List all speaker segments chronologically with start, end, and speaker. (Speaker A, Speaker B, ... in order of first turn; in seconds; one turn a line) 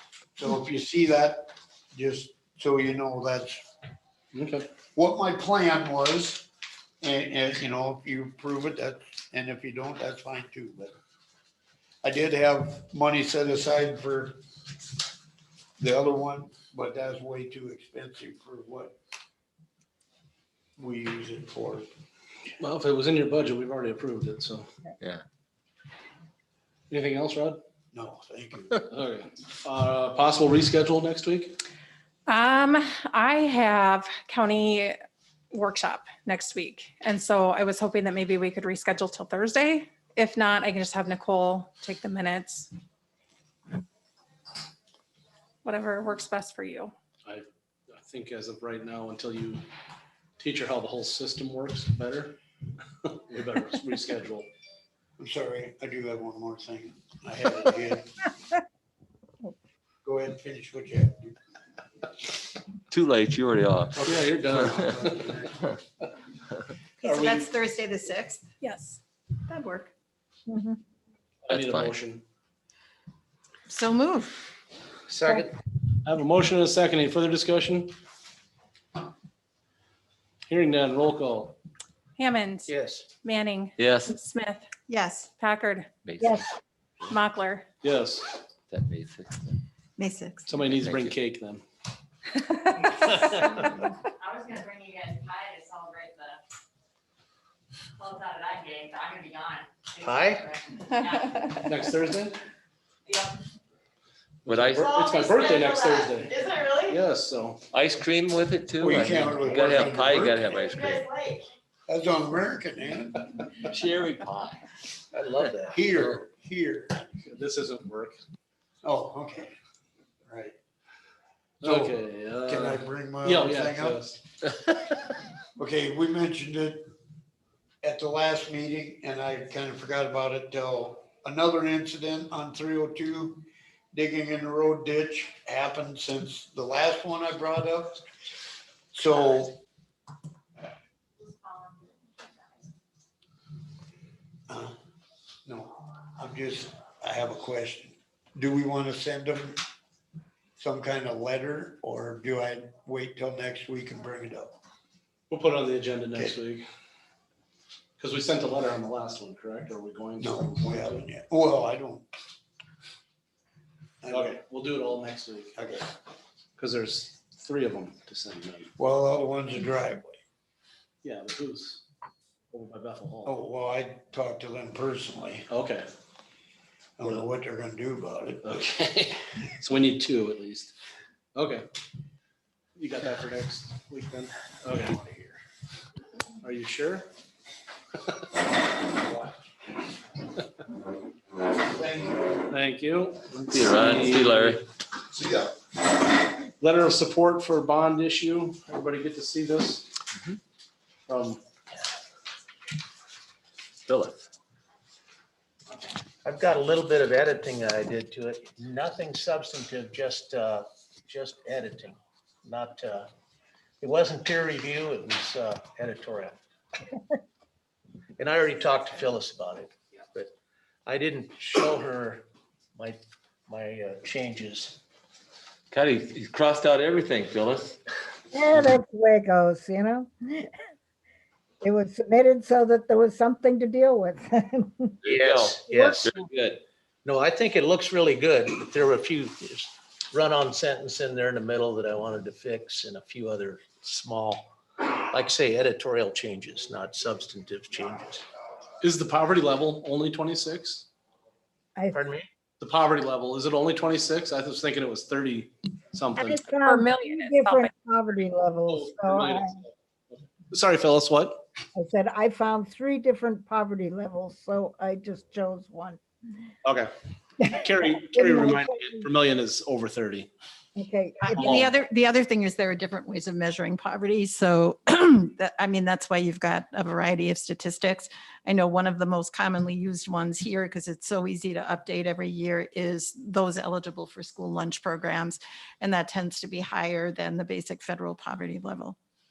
Speaker A: 0.3-3.6
Speaker B: 4.3-4.7
Speaker A: 4.9-6.5
Speaker A: 7.0-10.9
Speaker A: 12.0-14.4
Speaker A: 15.8-18.9
Speaker A: 20.8-21.9
Speaker B: 22.6-24.6
Speaker B: 26.9-27.6
Speaker A: 27.9-28.8
Speaker B: 28.9-31.6
Speaker C: 32.3-35.0
Speaker C: 35.5-42.7
Speaker C: 45.6-46.9
Speaker B: 47.2-49.6
Speaker B: 50.4-52.4
Speaker B: 53.0-54.5
Speaker A: 55.2-58.1
Speaker A: 60.0-61.3
Speaker D: 62.9-64.0
Speaker B: 64.0-65.4
Speaker A: 64.0-65.6
Speaker E: 67.0-68.4
Speaker B: 67.0-67.4
Speaker C: 68.6-69.0
Speaker E: 69.5-69.9
Speaker B: 71.5-72.2
Speaker D: 71.5-71.9
Speaker E: 73.7-74.4
Speaker F: 75.1-75.5
Speaker B: 76.0-77.9
Speaker B: 80.5-81.6
Speaker C: 82.2-82.7
Speaker F: 82.7-83.0
Speaker C: 83.2-84.7
Speaker D: 83.8-84.1
Speaker E: 84.9-85.3
Speaker C: 85.4-85.9
Speaker D: 86.0-86.4
Speaker G: 86.2-86.5
Speaker C: 87.1-87.7
Speaker B: 87.8-88.4
Speaker D: 88.7-89.6
Speaker E: 90.0-90.5
Speaker B: 90.5-91.6
Speaker D: 90.6-91.1
Speaker F: 92.9-93.8
Speaker H: 94.2-96.3
Speaker H: 98.0-101.2
Speaker E: 98.1-98.8
Speaker F: 100.0-100.5
Speaker C: 101.0-101.7
Speaker B: 101.7-102.4
Speaker H: 103.1-103.3
Speaker B: 104.4-107.6
Speaker D: 104.5-104.9
Speaker H: 104.8-106.1
Speaker E: 106.3-106.9
Speaker D: 107.7-111.1
Speaker A: 108.8-110.4
Speaker H: 110.7-111.4
Speaker A: 111.9-113.5
Speaker D: 113.7-114.6
Speaker F: 115.1-115.8
Speaker A: 115.7-117.0
Speaker B: 117.2-118.2
Speaker A: 118.8-119.5
Speaker A: 120.3-120.5
Speaker A: 121.6-124.0
Speaker B: 121.6-124.2
Speaker A: 125.5-126.8
Speaker A: 127.8-133.4
Speaker A: 133.9-138.1
Speaker A: 138.9-139.6
Speaker A: 144.5-144.7
Speaker A: 145.5-149.6
Speaker A: 150.6-154.6
Speaker B: 155.3-156.7
Speaker B: 158.0-161.1
Speaker A: 160.2-162.1
Speaker A: 164.0-164.3
Speaker B: 164.1-165.6
Speaker A: 165.6-165.8
Speaker B: 166.6-168.7
Speaker A: 168.8-170.2
Speaker B: 171.0-171.8
Speaker B: 172.5-173.3
Speaker A: 173.2-175.5
Speaker B: 175.5-175.8
Speaker A: 177.0-178.7
Speaker B: 178.4-180.7
Speaker B: 181.3-181.7
Speaker B: 182.8-185.4
Speaker B: 186.4-187.1
Speaker A: 191.7-192.2
Speaker B: 192.5-194.6
Speaker D: 193.5-194.6
Speaker A: 195.2-195.5
Speaker B: 196.6-199.9
Speaker B: 201.1-201.4
Speaker D: 203.9-204.3
Speaker F: 206.2-213.1
Speaker F: 213.8-216.4
Speaker F: 218.2-220.3
Speaker F: 220.8-224.8
Speaker D: 225.7-227.8
Speaker G: 228.3-230.5
Speaker G: 231.6-234.9
Speaker F: 235.0-236.1
Speaker D: 235.1-236.6
Speaker G: 235.8-236.2
Speaker F: 237.0-248.2
Speaker B: 248.8-250.9
Speaker G: 251.8-252.0
Speaker F: 251.9-252.3
Speaker B: 252.6-256.4
Speaker G: 256.1-259.6
Speaker C: 256.5-257.7
Speaker B: 258.7-259.5
Speaker B: 260.5-261.4
Speaker G: 261.7-266.0
Speaker B: 266.6-266.9
Speaker G: 267.4-269.1
Speaker B: 267.5-270.3
Speaker G: 270.8-271.7
Speaker E: 271.2-288.9
Speaker B: 271.4-271.7